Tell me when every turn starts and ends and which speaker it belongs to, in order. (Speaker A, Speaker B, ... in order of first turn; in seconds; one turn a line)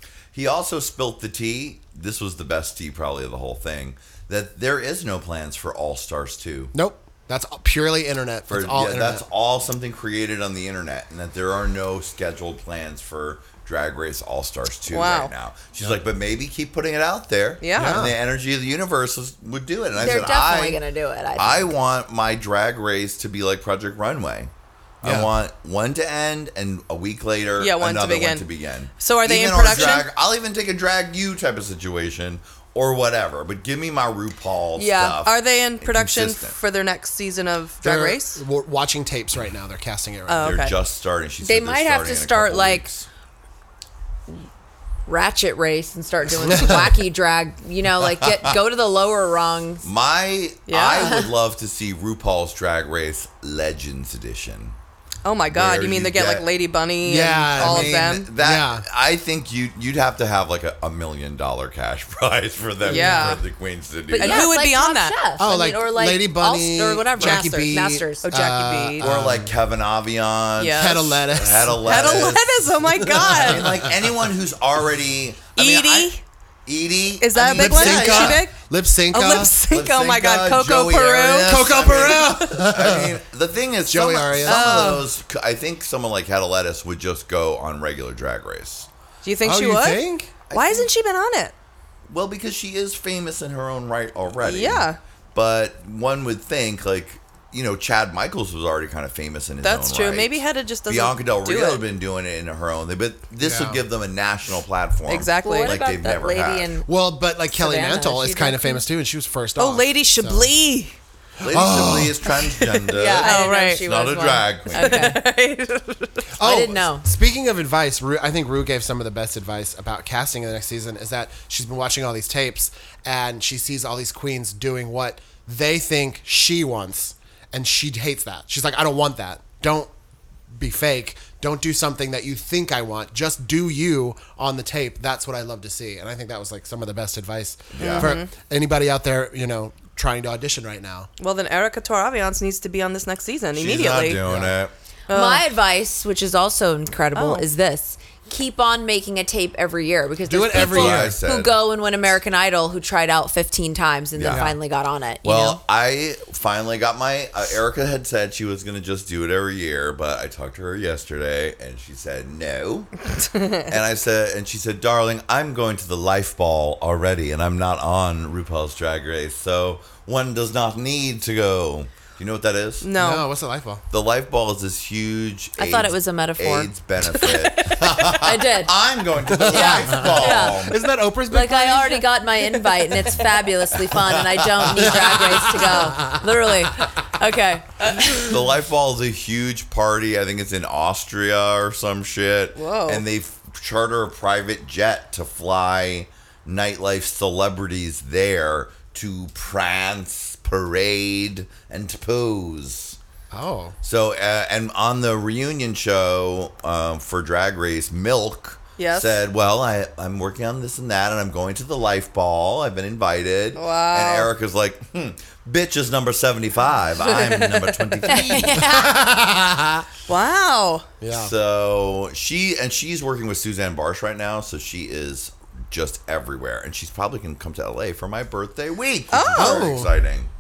Speaker A: 0.3-6.7
Speaker B: 6.7-9.2
Speaker A: 8.5-20.8
Speaker C: 14.9-15.3
Speaker C: 17.6-18.0
Speaker B: 17.8-18.1
Speaker D: 19.9-21.7
Speaker A: 21.4-36.6
Speaker B: 25.0-25.3
Speaker C: 27.6-28.5
Speaker C: 29.0-30.1
Speaker D: 34.8-35.2
Speaker C: 35.2-38.4
Speaker B: 37.8-40.5
Speaker C: 40.3-40.8
Speaker A: 40.4-43.1
Speaker D: 41.4-42.9
Speaker D: 45.1-49.9
Speaker B: 46.5-46.9
Speaker A: 48.0-48.6
Speaker A: 49.8-54.8
Speaker C: 50.7-51.2
Speaker D: 51.0-51.3
Speaker C: 55.2-58.3
Speaker A: 55.5-56.5
Speaker B: 57.0-58.9
Speaker A: 57.6-64.5
Speaker B: 62.8-63.4
Speaker C: 62.9-63.4
Speaker D: 64.1-68.3
Speaker C: 64.2-65.2
Speaker B: 65.4-69.5
Speaker C: 68.2-69.1
Speaker A: 69.0-72.6
Speaker C: 70.6-71.1
Speaker B: 70.8-72.4
Speaker C: 71.8-73.8
Speaker B: 73.0-73.9
Speaker A: 73.3-76.1
Speaker C: 75.6-76.2
Speaker A: 76.7-78.5
Speaker C: 77.2-78.6
Speaker B: 77.5-79.5
Speaker C: 79.1-81.8
Speaker A: 79.7-88.9
Speaker B: 81.5-83.1
Speaker B: 83.9-85.0
Speaker C: 84.4-85.0
Speaker C: 89.2-91.5
Speaker B: 89.4-90.3
Speaker A: 90.5-90.9
Speaker A: 92.1-106.7
Speaker C: 94.4-95.0
Speaker C: 99.6-101.8
Speaker B: 103.4-103.8
Speaker C: 105.1-105.8
Speaker D: 105.4-106.9
Speaker B: 106.9-110.5
Speaker D: 107.5-108.8
Speaker C: 109.6-111.0
Speaker B: 111.4-112.2
Speaker A: 111.4-115.1
Speaker C: 112.5-113.8
Speaker D: 113.0-115.2
Speaker C: 114.7-116.3
Speaker B: 116.4-129.9
Speaker D: 116.4-117.1
Speaker B: 130.5-141.1
Speaker A: 137.7-138.1
Speaker C: 137.8-138.3
Speaker C: 141.2-144.2
Speaker A: 143.6-144.7
Speaker B: 144.3-144.5
Speaker C: 145.1-145.4
Speaker D: 145.1-155.6
Speaker C: 147.2-147.5
Speaker B: 150.3-151.2
Speaker A: 150.5-151.6
Speaker A: 154.2-154.5
Speaker B: 154.3-154.6
Speaker A: 155.2-162.9
Speaker C: 163.3-163.6
Speaker A: 163.7-172.9
Speaker C: 172.8-173.3
Speaker B: 173.0-173.8
Speaker A: 173.9-180.9
Speaker D: 175.6-178.7
Speaker B: 179.3-182.1
Speaker D: 179.5-180.6
Speaker D: 181.3-188.3
Speaker A: 183.8-185.2
Speaker B: 184.8-186.3
Speaker A: 188.1-203.0
Speaker C: 192.6-193.0
Speaker B: 203.3-203.8
Speaker A: 203.8-218.7
Speaker C: 208.8-209.2
Speaker C: 213.6-214.3
Speaker C: 217.0-218.3
Speaker D: 218.1-218.9
Speaker B: 218.6-219.8
Speaker C: 220.1-220.9
Speaker B: 221.0-221.3
Speaker A: 221.1-230.3
Speaker C: 229.1-229.7
Speaker B: 229.3-229.9